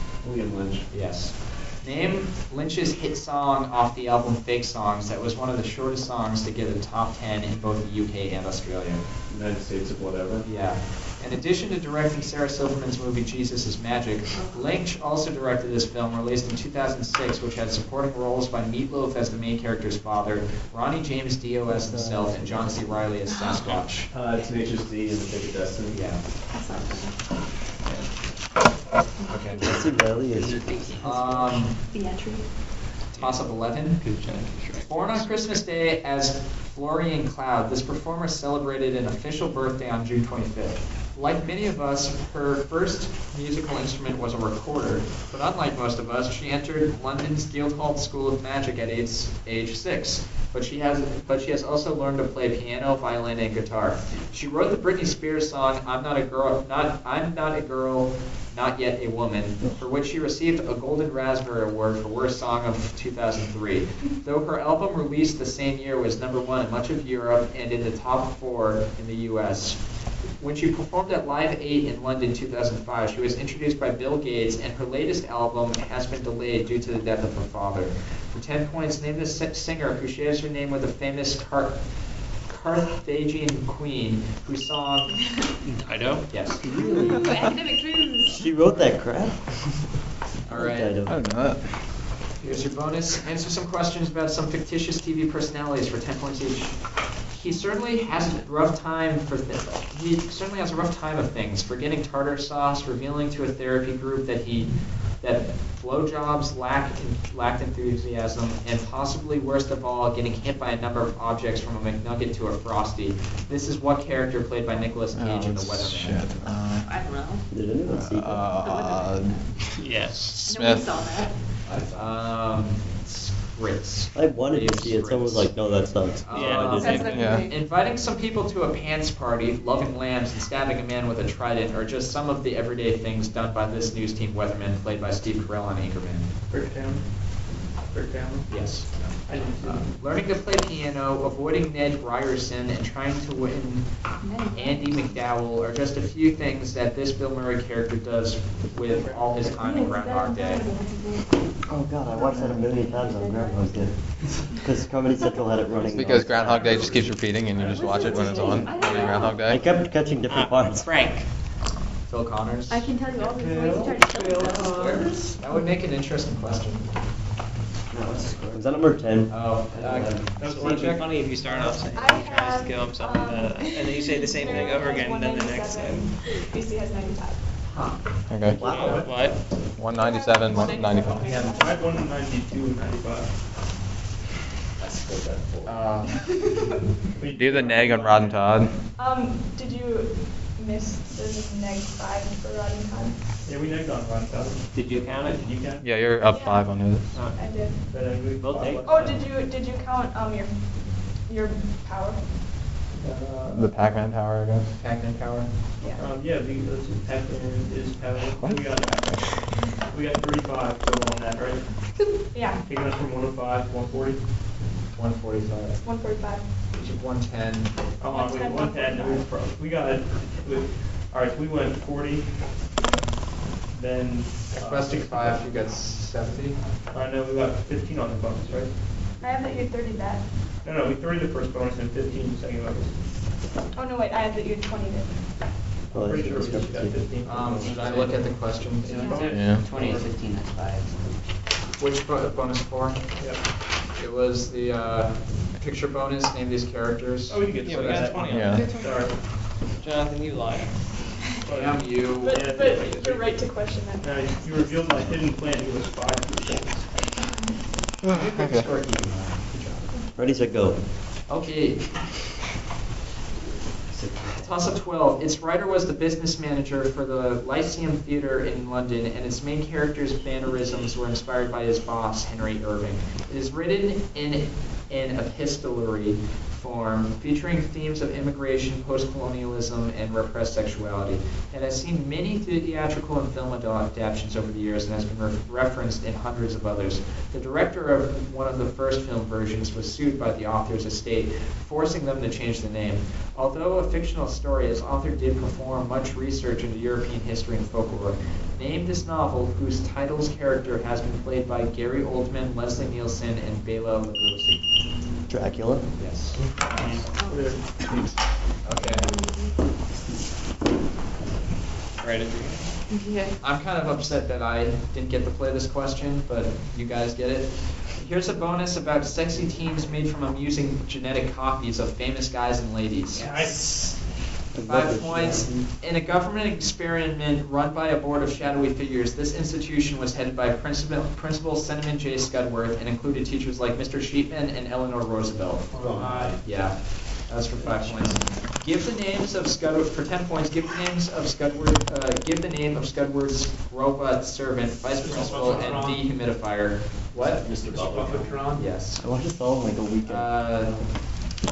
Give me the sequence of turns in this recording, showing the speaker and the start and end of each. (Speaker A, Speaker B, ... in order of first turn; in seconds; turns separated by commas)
Speaker A: 0.2-0.9, Speaker B: 0.9-9.0, Speaker A: 9.3-10.4, Speaker B: 10.4-24.1, Speaker C: 14.3-14.7, Speaker D: 21.7-23.0, Speaker C: 23.3-23.7, Speaker A: 24.1-26.0, Speaker B: 25.9-26.2, Speaker C: 26.5-27.1, Speaker C: 29.2-29.9, Speaker B: 29.3-29.9, Speaker D: 29.6-30.6, Speaker E: 30.3-31.5, Speaker B: 31.0-31.8, Speaker C: 31.8-32.5, Speaker E: 33.1-35.3, Speaker B: 33.1-34.0, Speaker B: 34.8-69.8, Speaker B: 70.4-81.8, Speaker B: 82.5-85.2, Speaker E: 85.6-86.3, Speaker B: 86.3-86.6, Speaker D: 86.6-87.3, Speaker C: 86.7-88.5, Speaker D: 88.3-89.5, Speaker B: 90.5-91.0, Speaker D: 90.5-91.2, Speaker F: 91.1-91.7, Speaker B: 92.4-116.3, Speaker F: 115.2-116.9, Speaker C: 116.8-117.5, Speaker D: 117.5-118.5, Speaker F: 117.9-121.1, Speaker C: 118.4-119.6, Speaker E: 119.8-120.2, Speaker C: 120.4-121.4, Speaker A: 121.7-122.2, Speaker B: 121.9-125.5, Speaker D: 124.1-127.1, Speaker B: 126.2-136.3, Speaker E: 126.3-127.1, Speaker C: 126.7-127.6, Speaker F: 127.0-127.5, Speaker G: 136.5-137.1, Speaker G: 137.8-138.7, Speaker B: 138.5-143.9, Speaker G: 139.2-140.0, Speaker C: 144.2-145.3, Speaker B: 144.5-150.7, Speaker G: 148.8-149.8, Speaker C: 149.6-151.5, Speaker D: 151.7-156.6, Speaker C: 152.2-153.9, Speaker F: 155.9-159.6, Speaker B: 156.3-157.1, Speaker C: 157.6-159.6, Speaker D: 159.4-161.0, Speaker E: 160.3-161.3, Speaker B: 162.1-162.9, Speaker C: 162.7-165.2, Speaker E: 164.0-164.9, Speaker B: 164.4-166.9, Speaker D: 167.9-170.3, Speaker B: 169.3-171.2, Speaker G: 170.4-171.7, Speaker E: 170.4-176.1, Speaker H: 171.9-177.4, Speaker B: 177.7-178.0, Speaker F: 178.3-178.6, Speaker D: 178.5-179.1, Speaker G: 178.5-179.3, Speaker E: 178.6-179.4, Speaker F: 179.8-181.4, Speaker H: 179.9-181.9, Speaker G: 181.2-183.3, Speaker A: 184.8-185.8, Speaker B: 185.7-186.2, Speaker H: 186.2-186.6, Speaker G: 187.2-188.5, Speaker F: 187.3-188.8, Speaker H: 188.9-193.2, Speaker G: 193.4-196.0, Speaker E: 194.7-195.5, Speaker F: 195.8-197.2, Speaker H: 196.3-197.9, Speaker E: 197.1-197.4, Speaker G: 197.9-199.2, Speaker E: 198.4-199.2, Speaker H: 198.8-200.6, Speaker H: 201.2-202.2, Speaker G: 203.0-203.7, Speaker F: 203.5-204.7, Speaker B: 204.8-205.5, Speaker G: 206.0-212.0, Speaker F: 208.3-209.5, Speaker C: 212.0-212.2, Speaker H: 212.3-212.6, Speaker G: 212.7-214.2, Speaker B: 214.9-215.8, Speaker H: 215.8-216.4, Speaker B: 216.7-217.7, Speaker G: 218.0-222.5, Speaker H: 218.1-219.3, Speaker G: 223.7-225.4, Speaker B: 224.5-226.6, Speaker G: 226.9-228.8, Speaker H: 229.2-230.3, Speaker G: 230.6-233.0, Speaker H: 233.7-235.2, Speaker G: 235.9-238.2, Speaker D: 235.9-237.0, Speaker B: 237.2-239.3, Speaker E: 237.6-241.1, Speaker G: 238.8-240.0, Speaker H: 238.9-239.4, Speaker F: 239.3-239.7, Speaker B: 241.8-243.0, Speaker G: 243.2-243.4, Speaker B: 243.9-248.2, Speaker G: 247.3-249.2, Speaker E: 247.6-248.8, Speaker F: 248.2-248.7, Speaker C: 248.4-249.1, Speaker E: 249.8-250.8, Speaker G: 251.4-253.2, Speaker B: 251.5-253.2, Speaker H: 252.2-255.1, Speaker G: 254.0-257.1, Speaker F: 258.0-258.7, Speaker B: 258.1-259.9, Speaker D: 260.2-260.8, Speaker B: 261.3-261.9, Speaker A: 263.9-264.7, Speaker B: 264.4-304.6, Speaker D: 305.3-305.9, Speaker B: 306.0-306.4, Speaker G: 306.8-307.7, Speaker C: 307.1-307.6, Speaker F: 307.9-308.2, Speaker B: 308.6-309.1, Speaker C: 308.8-309.6, Speaker E: 312.0-312.7, Speaker C: 312.9-313.4, Speaker B: 313.4-323.3, Speaker G: 323.1-324.0, Speaker D: 324.5-325.6, Speaker B: 324.6-335.8, Speaker G: 335.7-336.4, Speaker A: 335.8-336.4, Speaker B: 336.4-347.5, Speaker G: 345.0-346.1, Speaker A: 345.3-345.6, Speaker A: 347.2-348.4, Speaker G: 347.6-348.7, Speaker B: 348.5-349.0, Speaker D: 349.0-350.6, Speaker B: 350.1-350.8